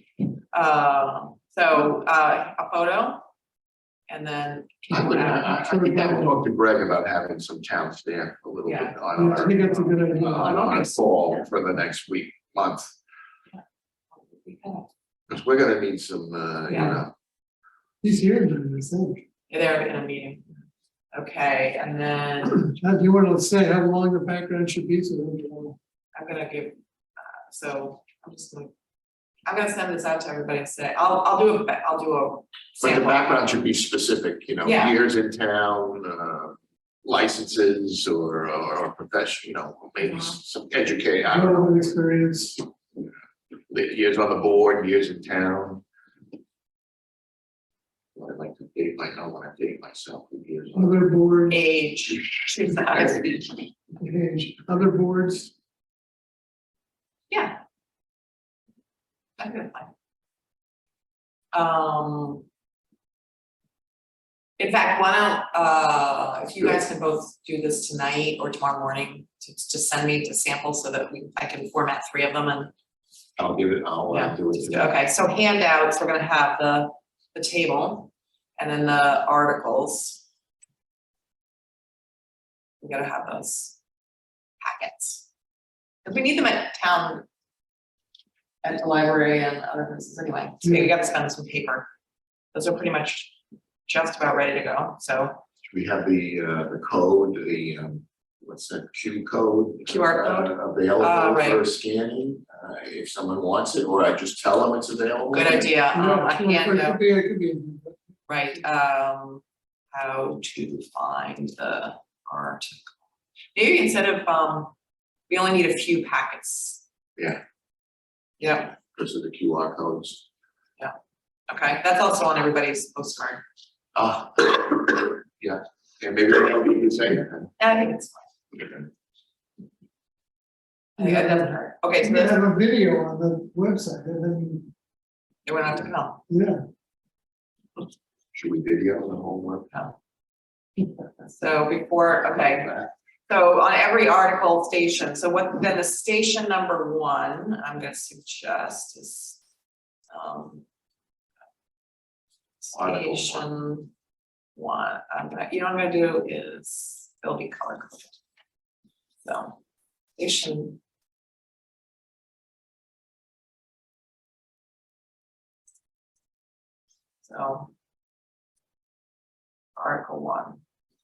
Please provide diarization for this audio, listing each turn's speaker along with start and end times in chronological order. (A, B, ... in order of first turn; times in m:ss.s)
0:00.5-0:03.3 A
0:04.1-0:06.3 A
0:04.9-0:13.0 B
0:05.2-0:06.4 C
0:08.6-0:09.0 A
0:09.1-0:10.8 C
0:10.1-0:11.5 A
0:14.2-0:14.9 A
0:15.3-0:17.1 B
0:16.7-0:17.0 A
0:18.0-0:19.2 C
0:19.5-0:20.4 A
0:21.1-0:22.7 A
0:22.6-0:25.8 C
0:26.1-0:28.7 A
0:29.4-0:33.3 A
0:32.8-0:41.8 B
0:34.6-0:35.0 A
0:40.0-0:40.3 A
0:41.3-0:42.6 C
0:43.7-0:45.8 B
0:48.1-0:51.0 B
0:50.7-0:51.6 C
0:51.5-0:53.4 A
0:54.0-0:55.5 C
0:57.3-0:57.6 A
0:59.4-0:59.9 A
1:01.5-1:02.4 A
1:04.6-1:12.7 A
1:06.6-1:06.8 B
1:13.4-1:15.0 B
1:14.1-1:20.2 A
1:22.8-1:23.8 A
1:24.6-1:25.2 A
1:26.0-1:27.2 A
1:28.6-1:31.9 A
1:32.5-1:33.3 A
1:33.9-1:35.4 A
1:35.6-1:45.7 B
1:39.8-1:41.6 A
1:45.3-1:47.0 A
1:45.9-1:48.0 C
1:48.3-1:52.8 A
1:53.5-1:54.7 A
1:55.3-1:56.8 A
1:58.4-1:58.7 A
1:58.7-2:00.2 B
2:01.5-2:03.4 A
2:03.9-2:07.5 B
2:07.6-2:08.2 A
2:08.6-2:08.8 B
2:11.0-2:12.4 A
2:11.0-2:14.7 C
2:15.4-2:16.2 A
2:16.3-2:16.6 C
2:18.3-2:19.7 B
2:21.2-2:22.7 A
2:22.4-2:22.9 B
2:23.3-2:29.4 A
2:30.1-2:30.6 A
2:32.6-2:33.9 A
2:32.7-2:33.4 B
2:34.6-2:38.1 A
2:39.2-2:39.6 A
2:40.2-2:40.8 A
2:47.2-2:47.7 A
2:49.8-2:50.6 A